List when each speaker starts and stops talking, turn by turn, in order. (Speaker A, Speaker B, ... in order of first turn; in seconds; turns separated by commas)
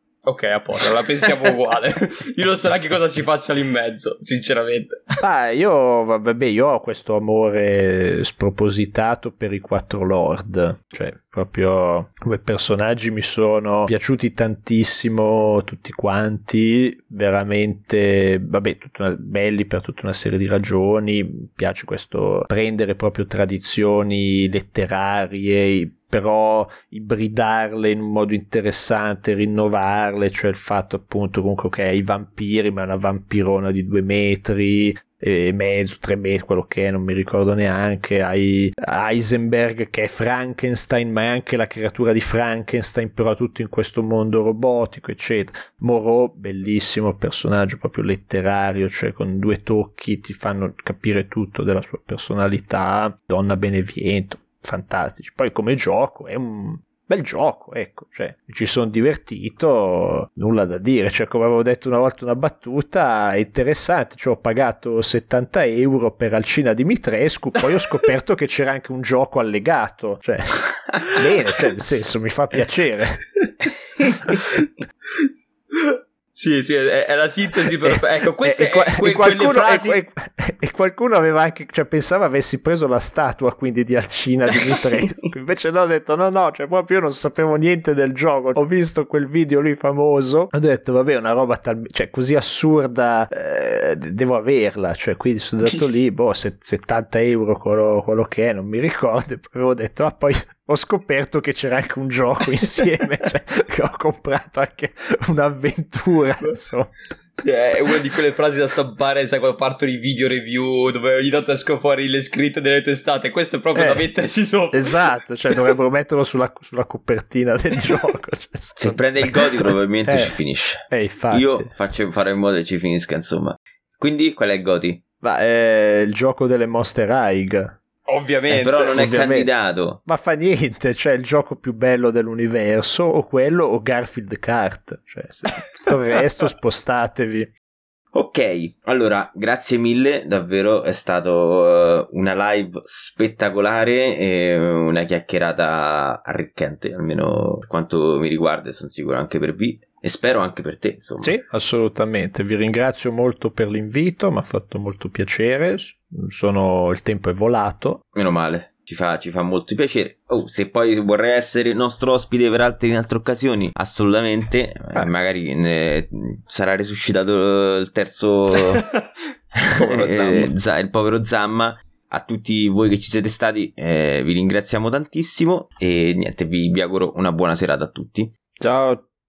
Speaker A: 0.3-5.2, Speaker B: 5.2-73.2, Speaker A: 75.2-80.0, Speaker B: 77.8-106.9, Speaker A: 107.4-115.0, Speaker B: 113.8-114.0, Speaker B: 114.7-121.7, Speaker C: 118.8-125.0, Speaker B: 125.2-127.8, Speaker A: 128.1-129.0, Speaker C: 128.5-130.0, Speaker B: 128.9-129.5, Speaker B: 130.1-137.5, Speaker C: 138.1-151.3, Speaker B: 151.2-158.0, Speaker C: 158.1-168.8, Speaker A: 169.6-170.5, Speaker C: 169.7-178.3, Speaker B: 178.6-179.0